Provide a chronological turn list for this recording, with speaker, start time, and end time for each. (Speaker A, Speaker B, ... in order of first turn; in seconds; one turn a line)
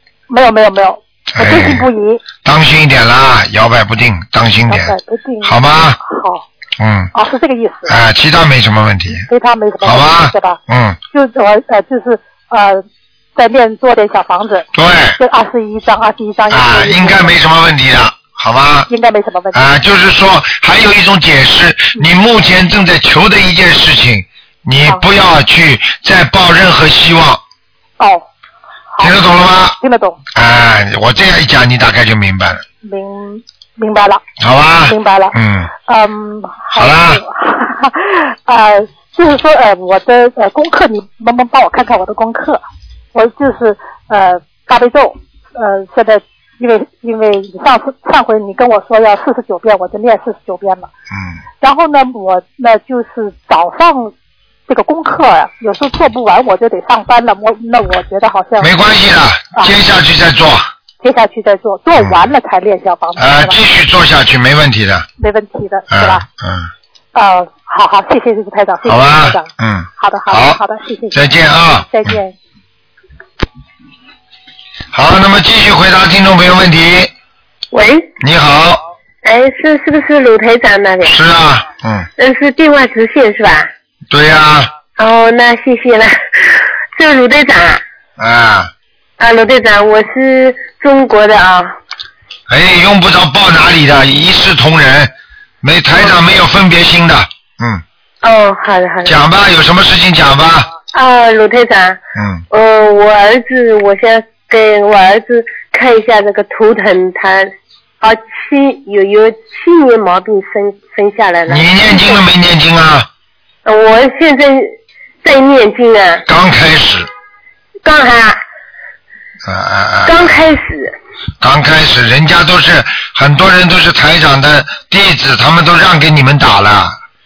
Speaker A: 0.3-2.2
Speaker B: 1.3-1.9
Speaker B: 2.4-6.0
Speaker A: 4.7-6.5
Speaker B: 6.8-7.1
Speaker A: 7.1-8.0
Speaker B: 7.9-9.3
Speaker A: 9.3-10.6
Speaker B: 9.8-11.0
Speaker A: 11.1-14.7
Speaker B: 14.7-15.2
Speaker A: 15.2-17.4
Speaker B: 16.5-18.9
Speaker A: 18.9-19.6
Speaker B: 19.5-27.4
Speaker A: 28.0-28.3
Speaker A: 28.9-29.2
Speaker B: 29.0-29.8
Speaker A: 29.8-30.2
Speaker B: 30.3-32.6
Speaker A: 32.8-34.2
Speaker B: 34.4-35.7
Speaker A: 34.9-42.6
Speaker B: 36.7-37.2
Speaker A: 43.1-50.9
Speaker A: 51.6-54.1
Speaker A: 54.7-58.8
Speaker B: 58.6-60.7
Speaker A: 61.0-63.6
Speaker B: 61.9-62.3
Speaker B: 63.2-65.1
Speaker A: 65.2-66.2
Speaker B: 65.9-66.7
Speaker A: 67.1-71.3
Speaker B: 68.8-70.6
Speaker B: 71.1-72.2
Speaker A: 71.9-72.3
Speaker B: 74.9-77.1
Speaker C: 77.7-78.1
Speaker B: 78.2-78.8
Speaker C: 79.2-81.2
Speaker B: 81.0-82.1
Speaker C: 82.2-83.7
Speaker B: 84.1-84.7
Speaker C: 85.0-87.8
Speaker B: 88.2-88.7
Speaker C: 89.2-91.8
Speaker B: 92.5-97.8
Speaker C: 98.2-99.2
Speaker B: 99.0-100.7
Speaker C: 100.9-102.0
Speaker B: 102.2-102.4
Speaker C: 102.5-112.2
Speaker B: 111.5-113.1
Speaker C: 113.7-116.2
Speaker B: 116.2-117.1
Speaker C: 117.8-118.4
Speaker B: 119.4-120.4
Speaker C: 120.0-120.9
Speaker B: 121.4-127.0